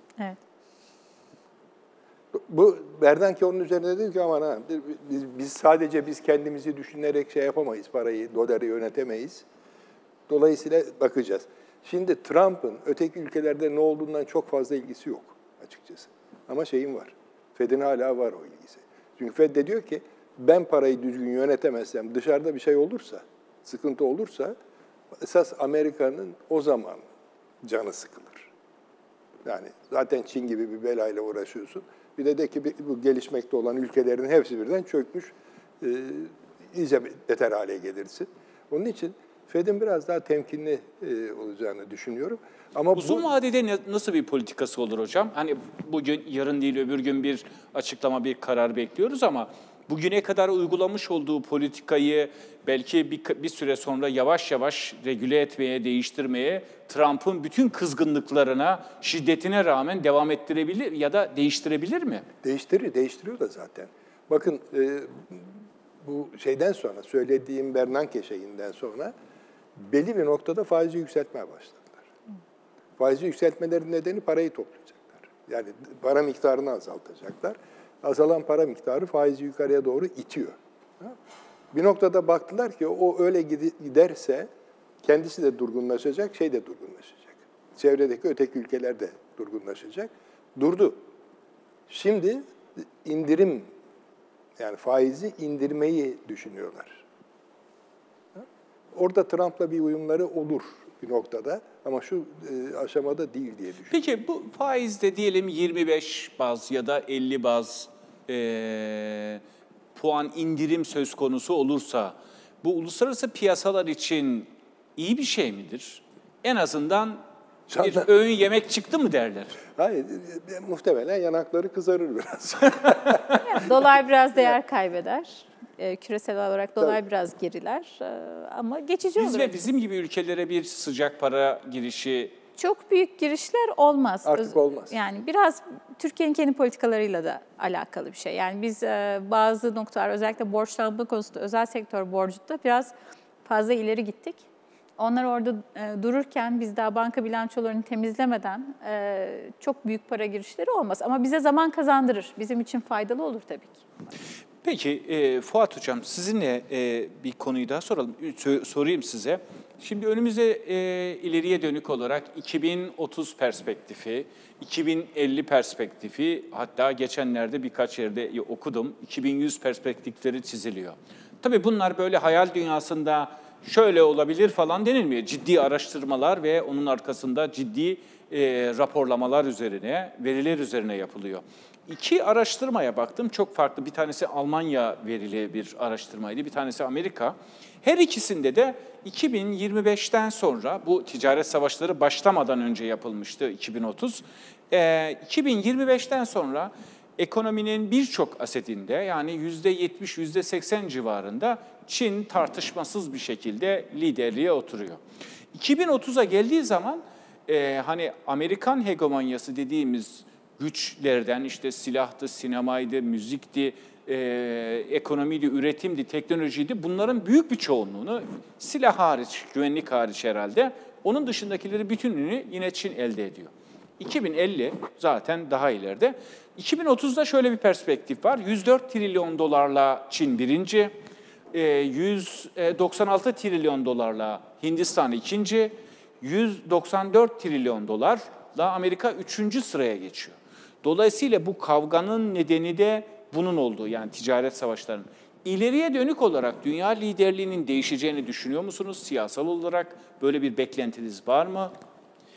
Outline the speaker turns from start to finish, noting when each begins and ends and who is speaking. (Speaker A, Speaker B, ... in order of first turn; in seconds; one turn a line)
Speaker A: 2.3-9.4
Speaker A: 10.3-24.5
Speaker A: 25.2-27.0
Speaker A: 27.6-28.5
Speaker A: 29.4-43.2
Speaker B: 42.9-62.2
Speaker A: 62.4-65.5
Speaker A: 66.0-69.1
Speaker A: 69.8-72.0
Speaker A: 73.0-81.2
Speaker A: 81.7-84.5
Speaker A: 85.0-91.0
Speaker A: 91.9-93.7
Speaker A: 94.6-97.0
Speaker A: 98.3-103.9
Speaker B: 103.9-109.4
Speaker B: 109.9-117.2
Speaker A: 117.7-118.1
Speaker B: 117.8-119.6
Speaker A: 119.7-123.8
Speaker C: 123.4-129.6
Speaker B: 129.2-132.3
Speaker C: 132.6-142.9
Speaker A: 134.2-135.0
Speaker C: 143.4-144.4
Speaker C: 145.0-153.8
Speaker B: 154.6-205.0
Speaker B: 205.5-230.9
Speaker B: 231.5-251.7